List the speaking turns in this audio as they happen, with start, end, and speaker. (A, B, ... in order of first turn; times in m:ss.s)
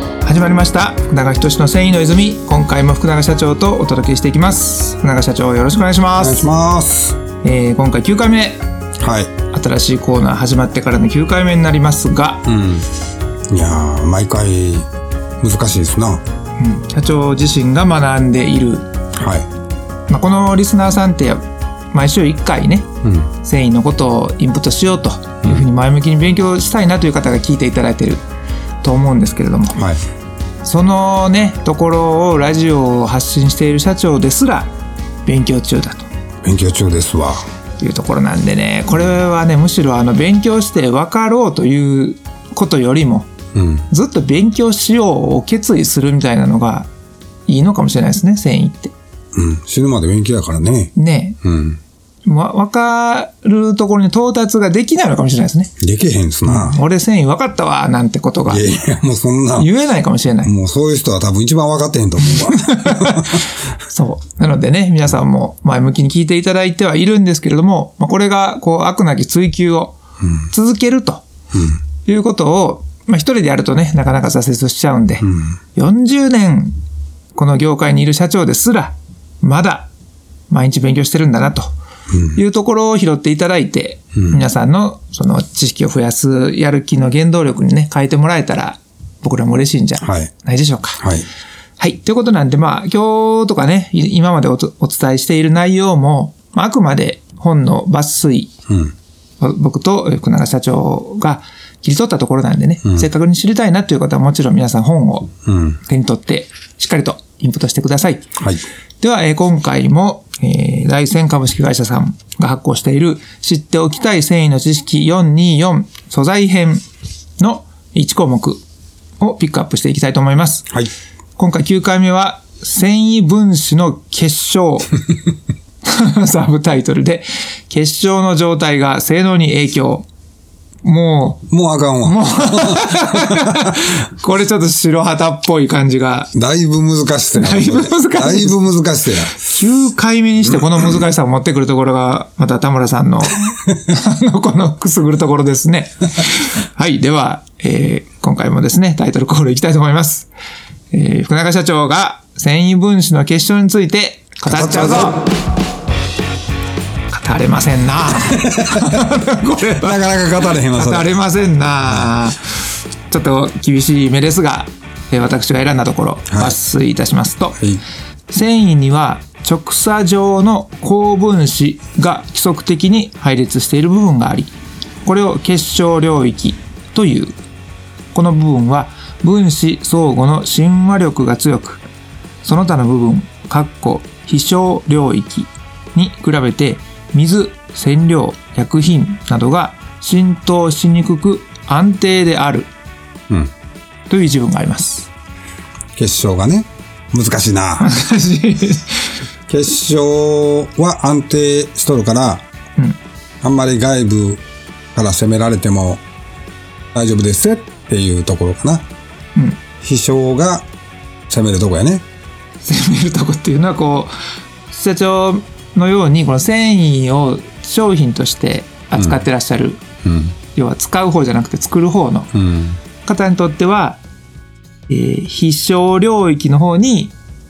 0:00.2-0:06.5 A
0:06.2-0:07.2 B
0:07.4-0:08.6 A
0:09.0-0:09.3 B
0:09.5-0:12.5 A
0:12.5-0:12.9 B
0:13.5-0:14.9 B
0:15.4-0:16.2 B
0:16.6-0:18.9 A
0:19.1-0:19.5 B
0:20.1-0:22.9 A
0:23.0-0:23.3 B
0:23.4-0:28.2 A
0:28.8-0:29.8 A
0:29.7-0:30.0 B
0:30.6-0:34.7 A
0:35.2-0:36.1 A
0:36.4-0:37.4 B
0:37.8-0:43.3 A
0:43.6-0:43.9 B
0:43.9-0:46.9 A
0:47.5-0:48.9 A
0:49.3-0:51.8 B
0:51.0-0:51.4 A
0:52.2-0:55.7 A
0:55.8-0:56.8 B
0:56.4-0:58.7 A
0:58.5-0:59.7 B
0:59.6-1:00.5 A
1:00.4-1:03.4 B
1:02.5-1:10.0 A
1:10.5-1:11.2 A
1:11.5-1:11.8 B
1:12.0-1:16.8 A
1:15.2-1:15.5 B
1:17.3-1:19.9 A
1:20.5-1:21.7 A
1:22.1-1:22.4 B
1:22.3-1:31.0 A
1:30.0-1:30.3 B
1:31.0-1:31.3 B
1:31.8-1:38.5 A
1:38.7-1:39.0 B
1:39.4-1:45.3 A
1:45.4-1:45.8 B
1:45.8-1:48.3 A
1:48.4-1:48.6 B
1:49.0-1:56.8 A
1:57.4-1:58.6 A
1:59.2-2:00.7 A
2:01.4-2:04.9 A
2:05.8-2:10.1 A
2:10.8-2:11.4 A
2:11.5-2:13.8 B
2:12.0-2:16.3 A
2:16.3-2:19.4 B
2:17.4-2:18.6 A
2:19.3-2:30.3 A
2:30.9-2:35.2 A
2:34.5-2:35.2 B
2:37.1-2:40.0 A
2:39.8-2:41.1 B
2:40.7-2:42.5 A
2:43.1-2:47.6 A
2:46.3-2:46.6 B
2:48.3-2:57.3 A
2:58.1-3:01.8 A
3:02.4-3:12.7 A
3:14.1-3:15.1 A
3:16.0-3:17.9 B
3:17.8-3:19.0 A
3:19.5-3:22.4 B
3:23.4-3:24.4 B
3:24.9-3:26.0 B
3:26.9-3:28.8 B
3:29.8-3:30.7 B
3:31.3-3:32.0 B
3:32.6-3:34.1 A
3:34.7-3:39.8 A
3:38.9-3:39.2 B
3:40.0-3:40.4 B
3:40.5-3:42.3 A
3:42.3-3:42.8 B
3:43.0-3:44.0 A
3:44.9-3:47.1 A